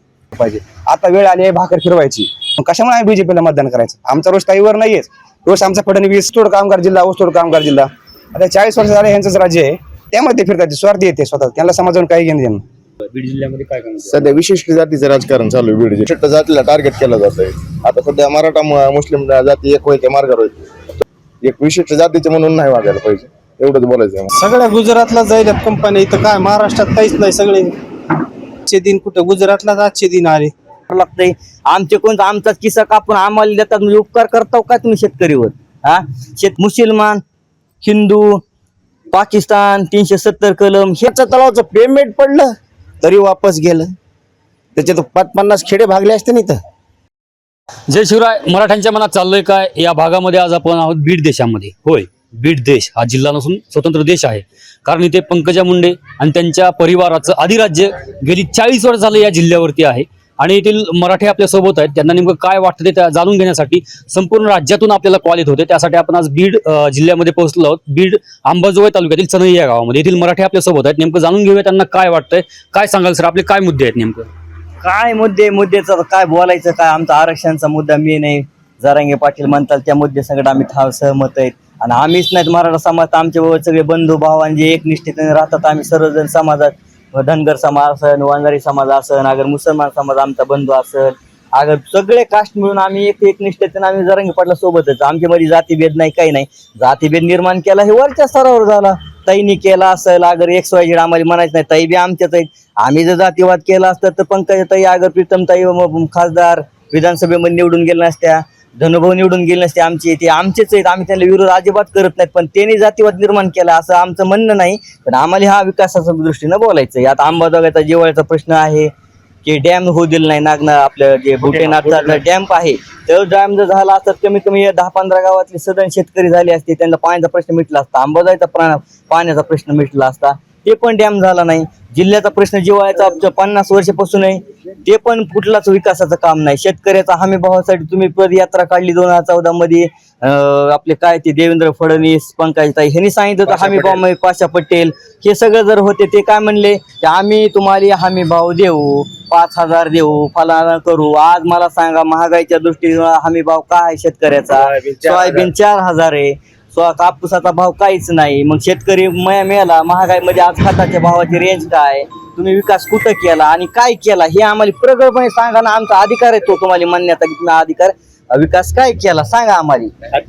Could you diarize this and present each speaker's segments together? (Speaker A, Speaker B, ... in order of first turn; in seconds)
Speaker A: 0.3-12.6
Speaker B: 13.1-14.3, 47.9-74.3
Speaker C: 14.1-24.3
Speaker D: 24.4-27.6, 28.8-29.3
Speaker E: 30.9-37.2, 37.8-38.4, 39.1-41.1, 74.8-118.9, 119.4-169.9
Speaker F: 41.1-42.5, 43.0-43.9, 44.7-46.6